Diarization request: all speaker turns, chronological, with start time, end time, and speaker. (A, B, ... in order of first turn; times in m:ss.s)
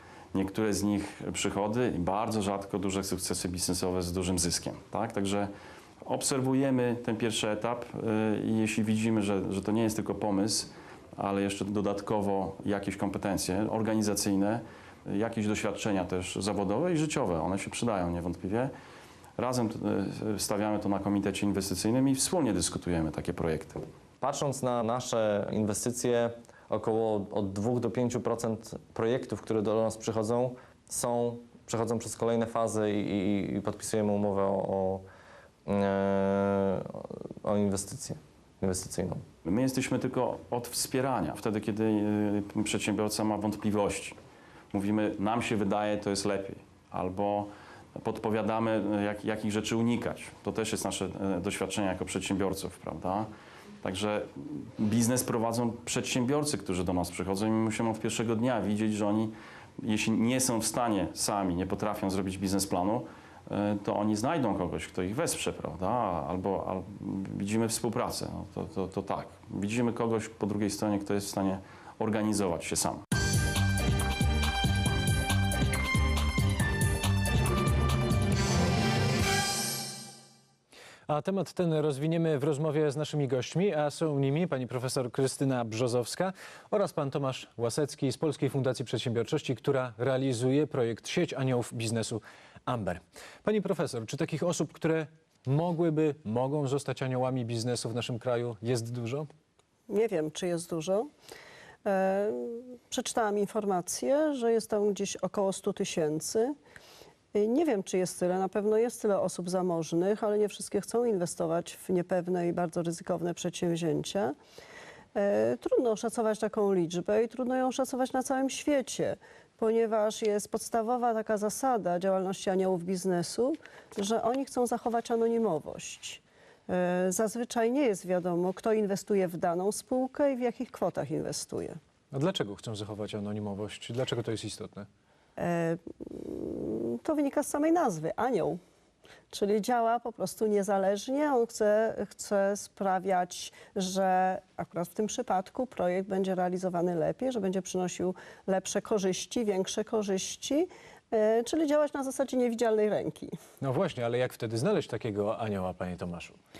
0:00.3-0:05.5 A
0:06.0-0:18.7 A
0:19.4-0:23.8 A
0:24.2-0:35.0 B
0:35.7-0:39.2 B
0:39.4-0:44.2 A
0:44.7-0:53.3 A
0:53.8-1:13.0 A
1:21.1-1:39.3 C
1:39.9-1:41.1 D
1:41.8-1:46.5 D
1:47.3-1:54.3 D
1:55.1-2:11.8 D
2:12.1-2:14.9 C
2:15.4-2:18.6 D
2:19.3-2:33.3 D
2:33.6-2:36.4 C